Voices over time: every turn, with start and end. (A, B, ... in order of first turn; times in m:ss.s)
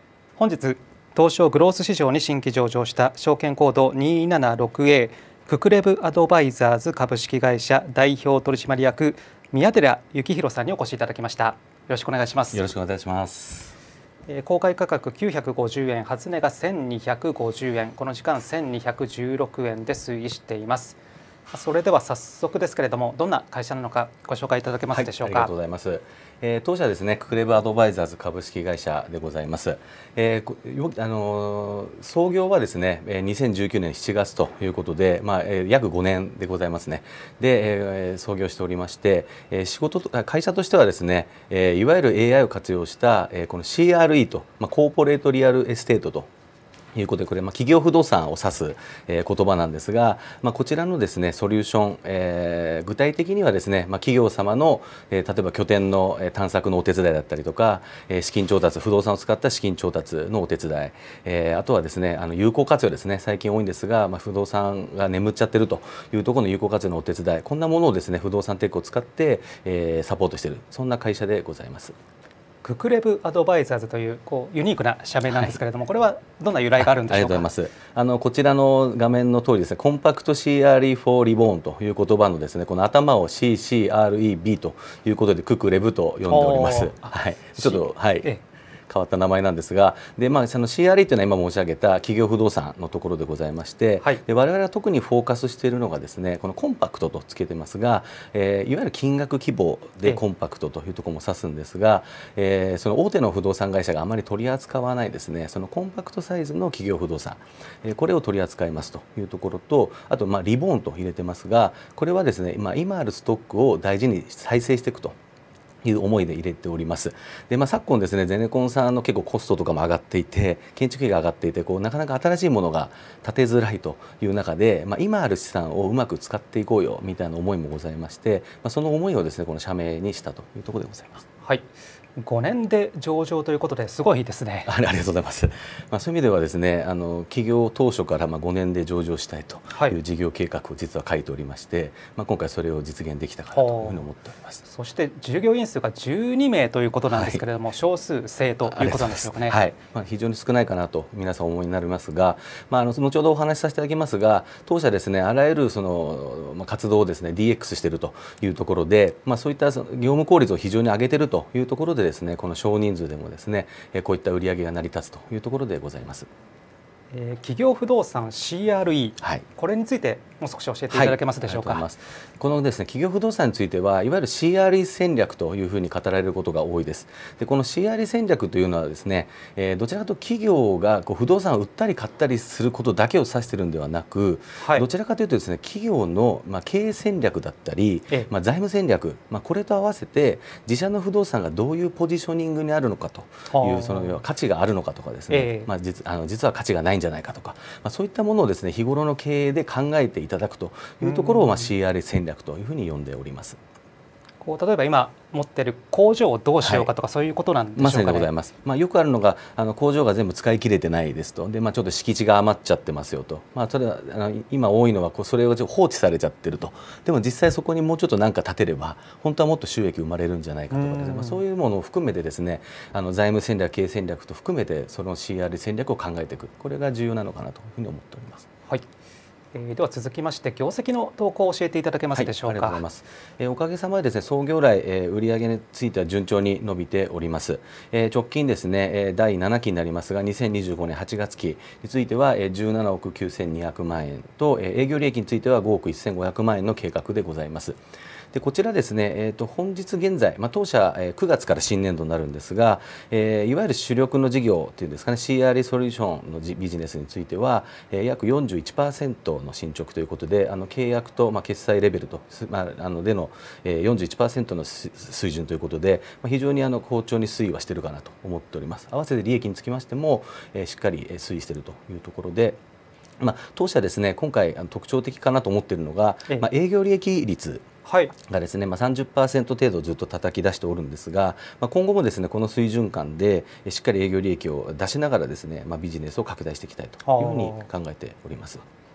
0:00.4-0:12.6 A
0:12.5-0:13.8 B
0:14.3-0:21.0 A
0:21.5-0:25.5 A
0:24.9-0:46.3 B
0:47.0-1:12.0 B
1:12.6-1:17.5 A
1:15.3-1:15.6 B
1:16.8-1:28.3 B
1:26.3-1:28.4 A
1:28.9-1:55.2 B
1:55.8-2:11.2 B
2:12.2-2:14.7 A
2:14.7-2:24.6 B
2:23.5-2:24.0 A
2:24.6-2:29.6 A
2:27.1-2:27.4 B
2:28.6-2:46.3 B
2:47.1-2:51.8 A
2:49.2-2:49.5 B
2:50.9-3:23.6 B
3:04.6-3:04.9 A
3:13.5-3:14.2 A
3:15.3-3:15.7 A
3:21.0-3:21.7 A
3:24.4-3:28.3 A
3:26.6-3:26.9 B
3:27.8-3:48.5 B
3:40.7-3:41.4 A
3:49.5-3:52.8 A
3:52.1-4:07.8 B
4:08.3-4:32.6 B
4:33.2-4:37.7 B
4:37.8-4:38.1 A
4:38.2-4:48.6 B
4:47.0-4:47.6 A